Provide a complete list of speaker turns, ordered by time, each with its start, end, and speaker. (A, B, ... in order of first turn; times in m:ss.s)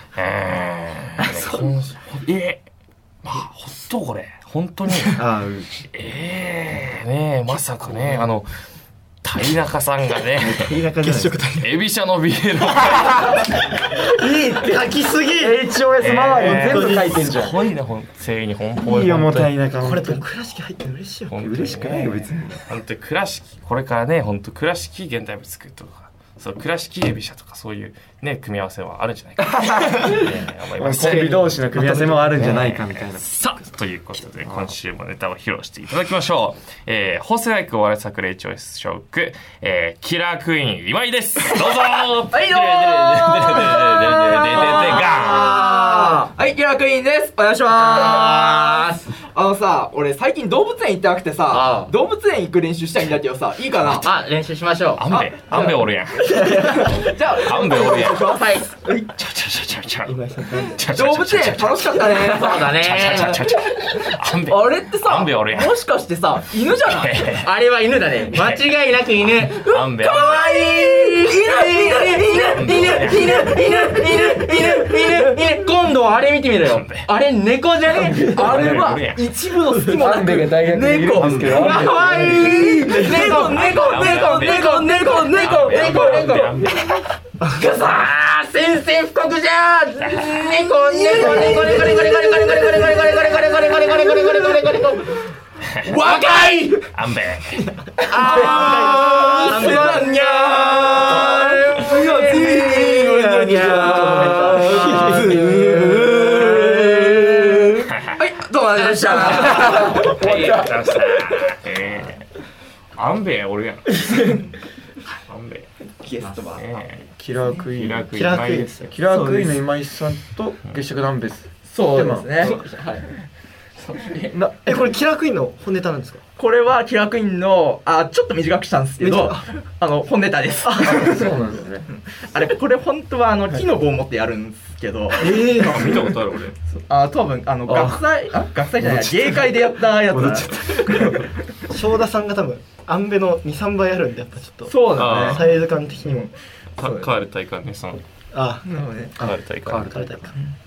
0:00.1-0:02.6 A
0:03.2-0:05.2 A
0:05.1-0:05.9 B
0:05.9-0:08.5 A
0:07.9-0:08.2 B
0:09.2-0:10.7 A
0:10.4-0:11.4 B
0:10.8-0:11.7 C
0:11.5-0:13.4 A
0:13.8-0:15.6 C
0:15.3-0:17.6 B
0:16.0-0:19.5 A
0:16.2-0:17.3 C
0:18.8-0:20.2 B
0:19.8-0:21.4 C
0:21.3-0:45.6 A
0:21.4-0:22.6 B
0:29.4-0:33.3 B
0:34.4-0:34.7 B
0:42.3-0:54.1 D
0:43.4-0:46.2 E
0:47.8-0:49.1 E
0:51.5-0:51.9 E
0:53.9-0:55.1 E
0:55.0-0:58.4 A
0:55.1-0:59.1 D
0:56.3-0:56.9 E
0:57.7-0:58.6 E
0:59.1-1:05.8 A
1:00.0-1:00.8 C
1:00.9-1:03.4 D
1:02.0-1:05.2 E
1:04.8-1:07.3 D
1:06.8-1:07.5 A
1:07.3-1:18.7 E
1:08.3-1:08.7 A
1:09.3-1:10.4 A
1:09.6-1:12.5 D
1:12.3-1:13.5 A
1:13.1-1:14.7 D
1:16.6-1:17.1 A
1:18.0-1:18.8 B
1:18.1-1:26.6 D
1:18.4-1:19.3 A
1:19.9-1:22.9 B
1:21.2-1:21.8 A
1:21.5-1:35.2 E
1:22.6-1:23.7 C
1:23.2-1:27.0 A
1:30.0-1:30.3 A
1:30.9-1:32.9 D
1:34.1-1:34.5 D
1:35.6-1:35.9 A
1:35.9-1:36.9 D
1:35.9-1:36.7 E
1:36.9-1:37.7 A
1:38.0-1:40.0 C
1:38.1-1:47.9 E
1:38.1-1:47.2 D
1:43.5-1:47.2 C
1:47.8-1:48.2 A
1:48.2-1:50.0 D
1:48.4-1:50.1 E
1:49.4-1:50.9 B
1:49.6-1:52.3 A
1:53.0-1:54.4 A
1:55.3-1:55.7 A
1:56.0-1:56.6 D
1:56.2-1:56.6 E
1:56.5-1:57.1 A
1:57.2-2:02.6 B
1:57.7-1:58.8 A
1:58.1-1:59.5 C
2:01.7-2:03.1 D
2:03.8-2:04.3 E
2:04.3-2:04.8 B
2:04.6-2:06.2 C
2:06.4-2:11.2 D
2:09.0-2:09.5 C
2:10.6-2:11.3 C
2:10.8-2:11.9 B
2:12.1-2:15.2 D
2:15.2-2:16.0 C
2:15.2-2:16.6 A
2:16.7-2:21.3 D
2:17.6-2:18.0 B
2:18.8-2:19.4 B
2:20.1-2:21.2 B
2:21.7-2:26.3 C
2:24.6-2:25.4 D
2:24.9-2:25.5 A
2:26.0-2:27.1 D
2:26.8-2:28.0 A
2:28.3-2:28.7 C
2:28.6-2:29.2 D
2:29.2-2:30.4 B
2:29.2-2:30.0 A
2:29.8-2:30.3 C